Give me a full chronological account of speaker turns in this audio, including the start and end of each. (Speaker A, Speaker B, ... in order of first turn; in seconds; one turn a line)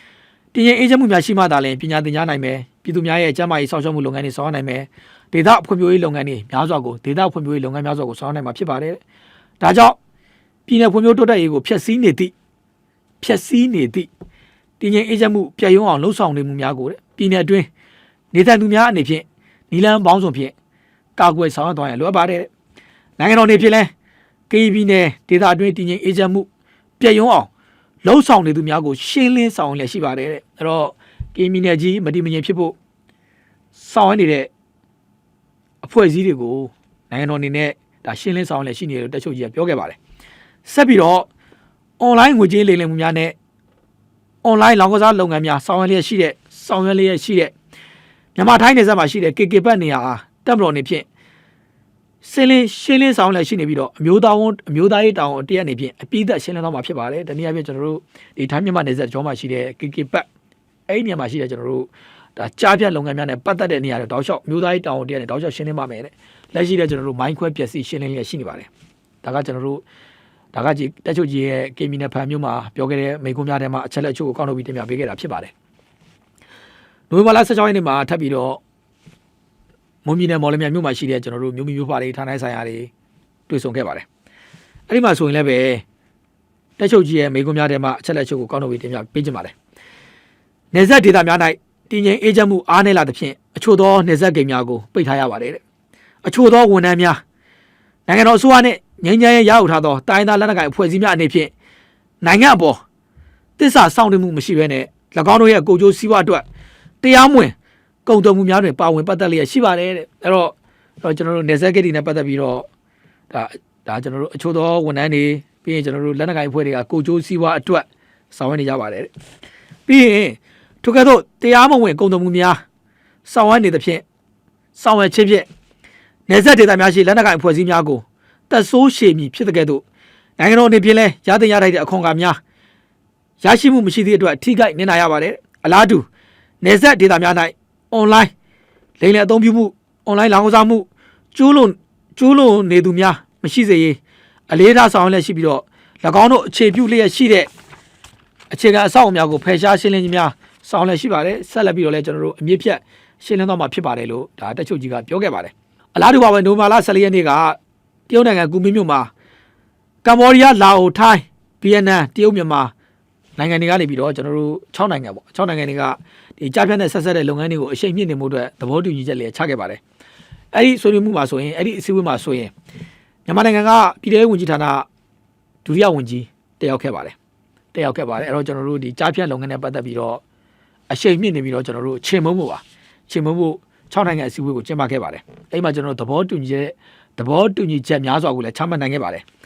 Speaker A: 0.5-9.0
Speaker A: 9.6-10.0
Speaker A: 10.7-12.3
Speaker A: 13.2-14.1
Speaker A: 14.8-17.7
Speaker A: 18.3-20.5
Speaker A: 21.2-22.5
Speaker A: 23.2-23.9
Speaker A: 24.5-26.5
Speaker A: 27.0-27.5
Speaker A: 28.0-32.7
Speaker A: 33.7-34.5
Speaker A: 35.8-40.0
Speaker A: 40.6-41.3
Speaker A: 42.0-43.3
Speaker A: 44.4-47.5
Speaker A: 48.3-51.0
Speaker A: 52.2-60.2
Speaker A: 60.9-68.7
Speaker A: 69.2-69.8
Speaker A: 70.5-75.5
Speaker A: 77.1-78.6
Speaker A: 80.0-82.9
Speaker A: 83.5-84.1
Speaker A: 84.9-85.8
Speaker A: 86.8-89.5
Speaker A: 90.7-95.6
Speaker A: 96.2-97.2
Speaker A: 98.1-101.5
Speaker A: 102.2-102.8
Speaker A: 103.6-106.5
Speaker A: 107.0-107.5
Speaker A: 108.0-112.7
Speaker A: 113.3-119.1
Speaker A: 119.9-122.6
Speaker A: 123.2-124.0
Speaker A: 124.7-125.5
Speaker A: 126.3-129.8
Speaker A: 130.4-132.4
Speaker A: 133.4-136.1
Speaker A: 136.6-138.3
Speaker A: 139.0-144.0
Speaker A: 144.5-147.5
Speaker A: 148.5-157.6
Speaker A: 158.1-159.1
Speaker A: 160.0-162.7
Speaker A: 163.4-169.8
Speaker A: 170.5-172.5
Speaker A: 173.2-174.9
Speaker A: 175.6-177.2
Speaker A: 177.7-180.2
Speaker A: 180.9-189.2